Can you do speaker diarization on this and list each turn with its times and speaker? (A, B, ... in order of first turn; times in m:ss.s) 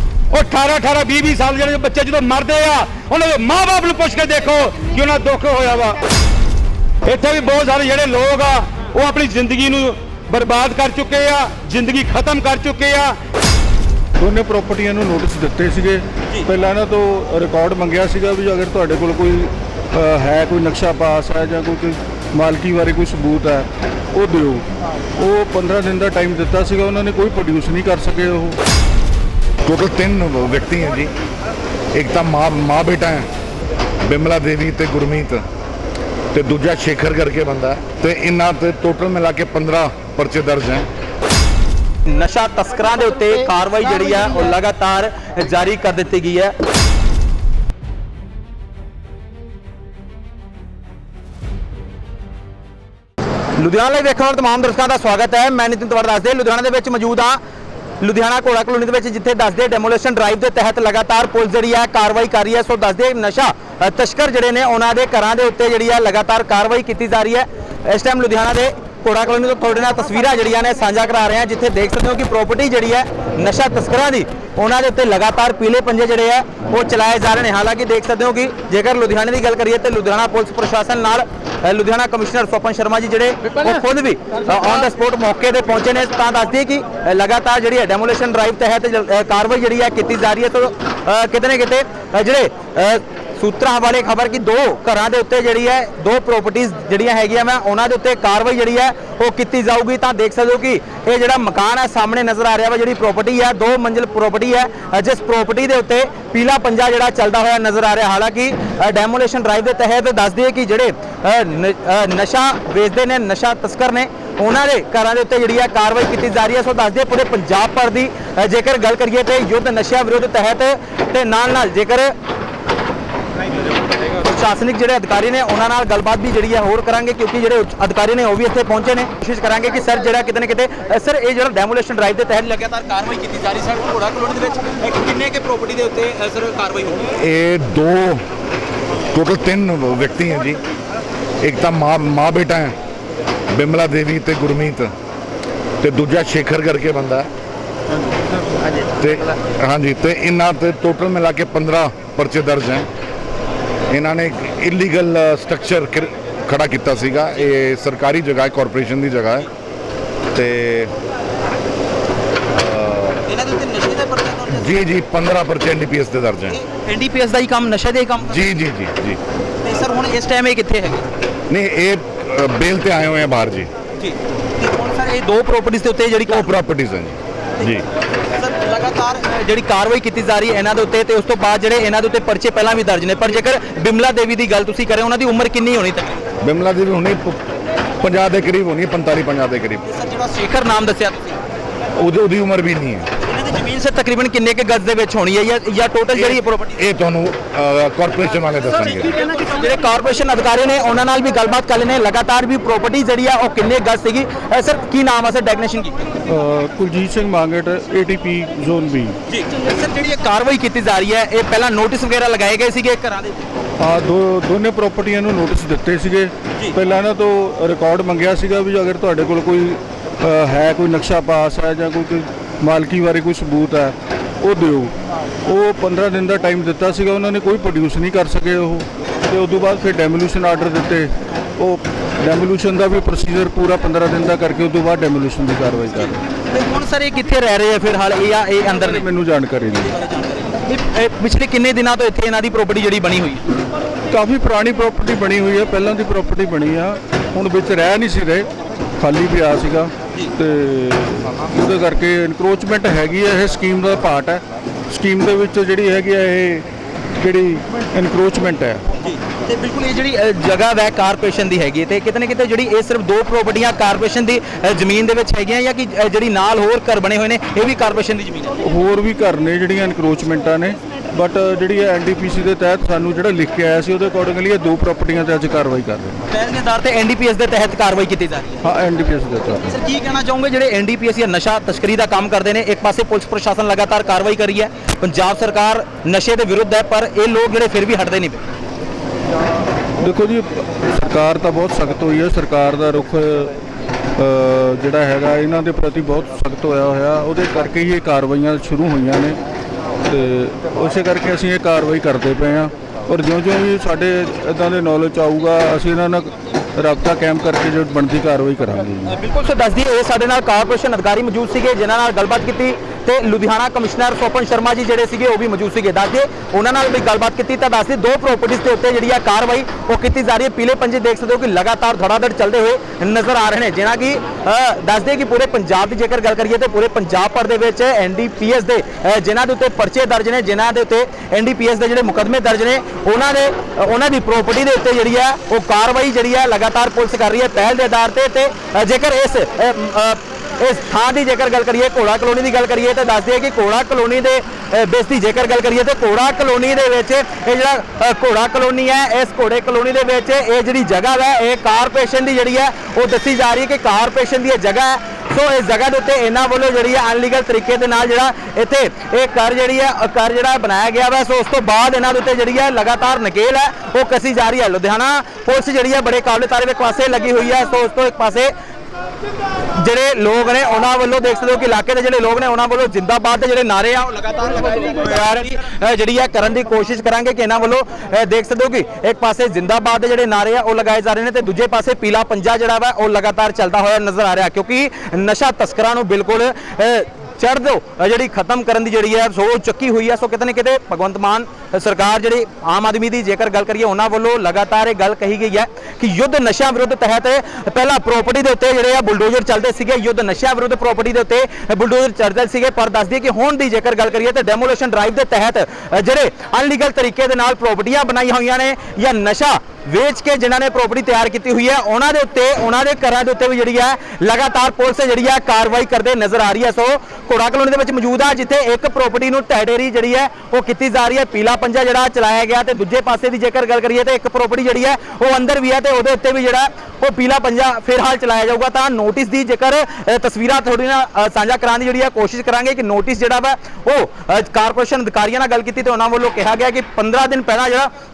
0:00.3-0:06.0 A
0:07.0-0:13.2 A
0:14.2-0:28.6 B
0:29.6-0:31.1 C
0:31.9-0:33.3 C
0:34.1-0:35.4 C
0:36.3-0:40.9 C
0:42.0-0:46.5 D
0:53.6-0:57.4 D
0:58.0-2:02.2 D
2:04.1-2:17.1 D
2:17.2-2:18.2 C
2:19.1-2:20.6 C
2:21.4-2:22.8 C
2:23.5-2:24.9 C
2:25.8-2:27.3 C
2:28.9-2:32.9 C
2:33.9-2:39.5 C
2:40.3-2:40.9 C
2:42.5-2:43.3 C
2:43.3-2:44.8 D
2:44.5-2:46.6 C
2:46.5-2:48.5 D
2:48.2-2:49.2 C
2:49.6-2:51.1 D
2:51.5-2:53.7 C
2:54.0-2:56.5 D
2:56.3-2:57.8 C
2:58.3-3:06.3 D
3:06.4-3:07.4 C
3:08.0-3:09.9 C
3:09.9-3:11.4 D
3:12.0-3:13.1 C
3:13.2-3:16.8 D
3:16.8-3:19.1 C
3:18.9-3:26.1 D
3:26.3-3:29.2 B
3:29.3-3:33.6 D
3:33.8-3:44.9 B
3:45.5-3:56.2 B
3:56.5-3:59.0 D
3:58.8-4:00.0 B
4:00.0-4:03.4 D
4:04.1-4:18.8 B
4:19.0-4:28.6 D
4:28.6-4:36.2 B
4:36.3-4:38.6 D
4:38.6-4:39.7 B
4:39.6-4:48.4 D
4:50.0-4:53.6 B
4:54.2-4:59.4 B
5:00.1-5:09.2 B
5:09.1-6:08.5 D
6:09.7-7:17.9 D